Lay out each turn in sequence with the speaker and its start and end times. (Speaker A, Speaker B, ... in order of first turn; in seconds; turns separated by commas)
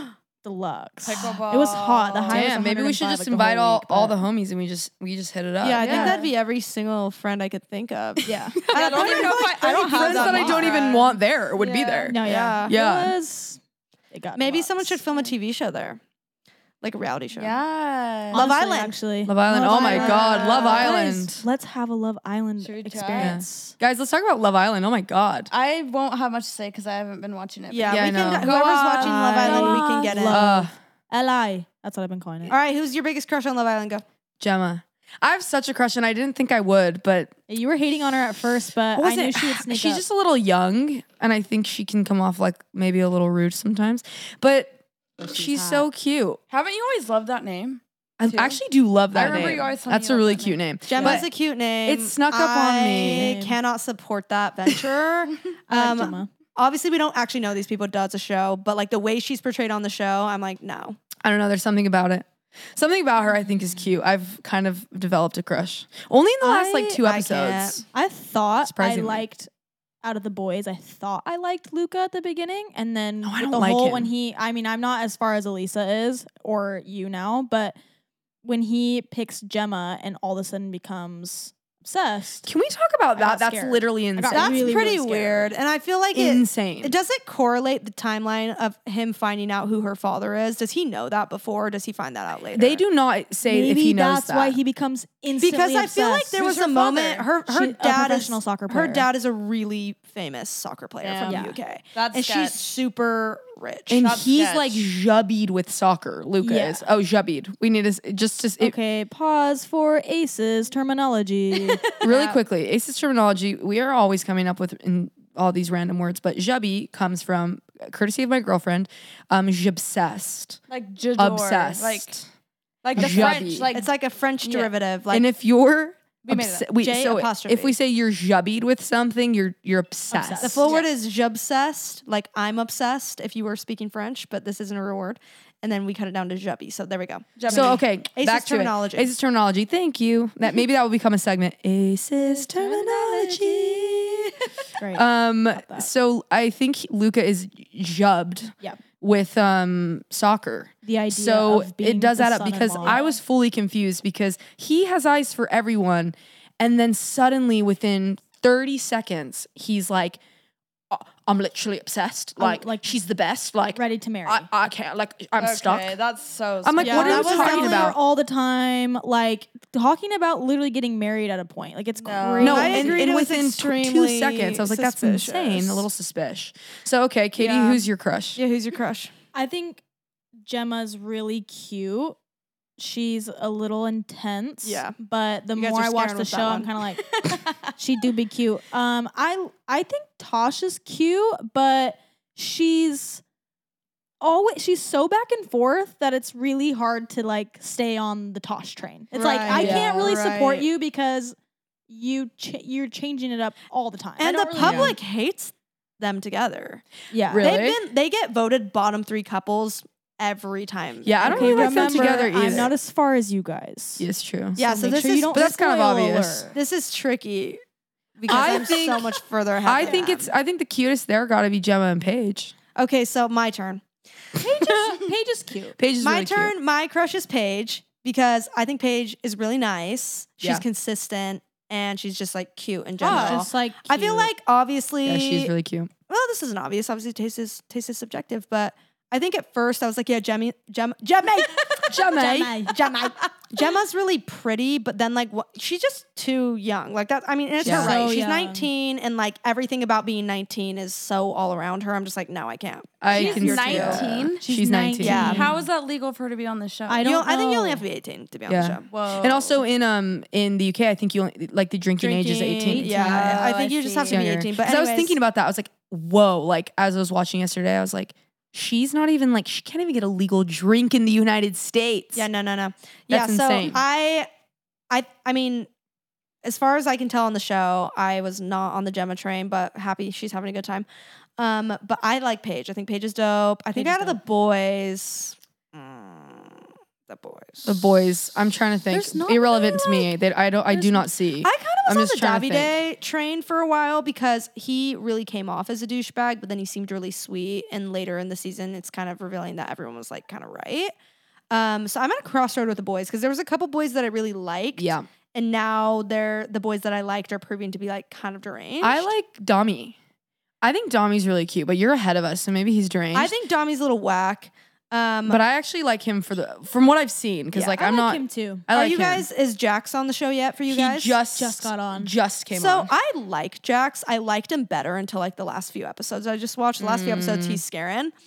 Speaker A: 0.4-4.2, Speaker B: 1.0-2.5, Speaker C: 2.3-6.2, Speaker D: 5.6-11.0, Speaker A: 5.8-6.3, Speaker A: 8.2-8.6, Speaker B: 8.7-12.2, Speaker C: 8.9-13.1, Speaker A: 12.1-13.6, Speaker D: 12.2-12.7, Speaker A: 14.1-15.0, Speaker D: 14.4-16.0, Speaker D: 16.8-17.6, Speaker B: 17.3-18.5, Speaker D: 18.3-19.0, Speaker A: 18.3-23.8, Speaker C: 19.2-21.4, Speaker B: 19.8-20.9, Speaker D: 19.9-20.7, Speaker B: 22.6-23.4, Speaker C: 23.2-25.5, Speaker B: 25.5-29.9, Speaker D: 27.7-30.5, Speaker C: 27.9-28.6, Speaker A: 29.0-32.5, Speaker C: 30.1-30.7, Speaker D: 32.5-34.0, Speaker C: 34.4-37.3, Speaker A: 37.5-40.0, Speaker C: 39.0-46.4, Speaker A: 45.2-45.9, Speaker B: 46.5-48.6, Speaker C: 48.2-51.3, Speaker B: 49.1-51.2, Speaker D: 50.9-61.0, Speaker C: 51.9-53.3, Speaker A: 52.9-53.6, Speaker A: 55.7-56.3, Speaker C: 61.2-67.8, Speaker A: 66.4-67.0, Speaker D: 67.0-67.9, Speaker A: 67.9-69.5, Speaker C: 68.6-69.2, Speaker A: 70.0-77.8, Speaker C: 73.2-74.1, Speaker A: 78.4-82.5, Speaker C: 82.5-84.9, Speaker A: 83.2-85.5, Speaker D: 84.3-92.8, Speaker C: 86.1-86.9, Speaker C: 92.5-94.6, Speaker A: 93.4-96.4, Speaker D: 95.4-104.1, Speaker B: 96.4-97.3, Speaker A: 97.5-99.1, Speaker B: 101.0-102.6, Speaker A: 101.2-101.6, Speaker C: 103.9-108.8, Speaker B: 104.0-104.8, Speaker A: 106.4-106.8, Speaker A: 108.6-111.9, Speaker B: 112.0-112.4, Speaker C: 112.0-120.6, Speaker B: 120.7-122.1, Speaker C: 121.2-122.2, Speaker B: 122.8-123.9, Speaker C: 123.0-123.7, Speaker D: 123.0-125.3, Speaker B: 124.4-124.7, Speaker C: 125.1-130.6, Speaker B: 126.2-126.7, Speaker D: 126.8-127.8, Speaker A: 130.1-130.7, Speaker D: 130.4-139.1, Speaker B: 137.4-137.8, Speaker C: 137.5-144.4, Speaker B: 142.6-143.9, Speaker A: 144.8-145.9, Speaker C: 144.9-160.2, Speaker A: 150.8-153.0, Speaker B: 152.8-153.1, Speaker C: 160.9-166.0, Speaker A: 162.4-162.9, Speaker A: 163.8-164.5, Speaker B: 165.4-167.2, Speaker C: 166.6-168.0, Speaker A: 166.8-173.1, Speaker D: 166.8-167.9, Speaker B: 172.0-172.7, Speaker C: 172.4-178.4, Speaker D: 172.4-175.9, Speaker D: 178.4-179.1, Speaker A: 179.3-179.8, Speaker A: 180.4-182.2, Speaker A: 182.8-187.1, Speaker D: 184.6-185.0, Speaker D: 185.6-186.8, Speaker A: 187.8-193.2, Speaker A: 194.2-201.4, Speaker D: 199.1-200.7, Speaker C: 199.5-200.2, Speaker A: 201.9-204.9, Speaker D: 204.2-206.8, Speaker C: 204.6-204.9, Speaker A: 207.1-207.5, Speaker C: 207.3-207.8, Speaker D: 207.4-212.7, Speaker C: 211.0-212.7, Speaker A: 211.2-214.1, Speaker C: 214.0-214.6, Speaker D: 214.6-215.6, Speaker A: 214.6-216.6, Speaker C: 215.3-216.5, Speaker D: 216.5-217.6, Speaker D: 218.2-220.3, Speaker C: 218.2-222.5, Speaker A: 218.3-218.7, Speaker A: 219.8-220.1, Speaker D: 222.8-223.8, Speaker A: 224.4-225.8, Speaker C: 225.8-226.5, Speaker D: 226.0-235.5, Speaker A: 233.0-234.3, Speaker C: 233.0-233.4, Speaker C: 235.0-235.9, Speaker D: 236.1-254.1, Speaker C: 241.9-242.6, Speaker A: 242.1-243.1, Speaker C: 247.6-248.0, Speaker A: 247.6-248.7, Speaker C: 253.0-255.5, Speaker B: 253.1-254.4, Speaker A: 254.4-255.5, Speaker D: 255.0-255.5, Speaker B: 255.1-257.1, Speaker A: 256.9-257.9, Speaker D: 257.0-258.9, Speaker C: 258.5-263.4, Speaker B: 258.9-259.6, Speaker D: 262.0-265.2, Speaker A: 262.6-263.4, Speaker B: 262.9-264.2, Speaker C: 264.1-272.3, Speaker D: 272.1-274.3, Speaker C: 273.1-273.8, Speaker D: 274.9-275.7, Speaker D: 276.4-280.9, Speaker D: 281.4-288.0, Speaker A: 283.7-284.2, Speaker C: 287.6-292.8, Speaker A: 288.9-290.1, Speaker A: 290.7-291.1, Speaker D: 291.4-300.9, Speaker D: 301.5-309.1, Speaker C: 304.8-305.1, Speaker C: 308.8-310.0, Speaker C: 310.6-313.3, Speaker D: 313.1-315.4, Speaker C: 315.3-319.3, Speaker D: 317.5-317.8, Speaker A: 317.8-318.6, Speaker D: 318.7-321.2, Speaker C: 320.7-322.9, Speaker A: 321.3-322.1, Speaker D: 322.5-328.1, Speaker C: 326.8-327.6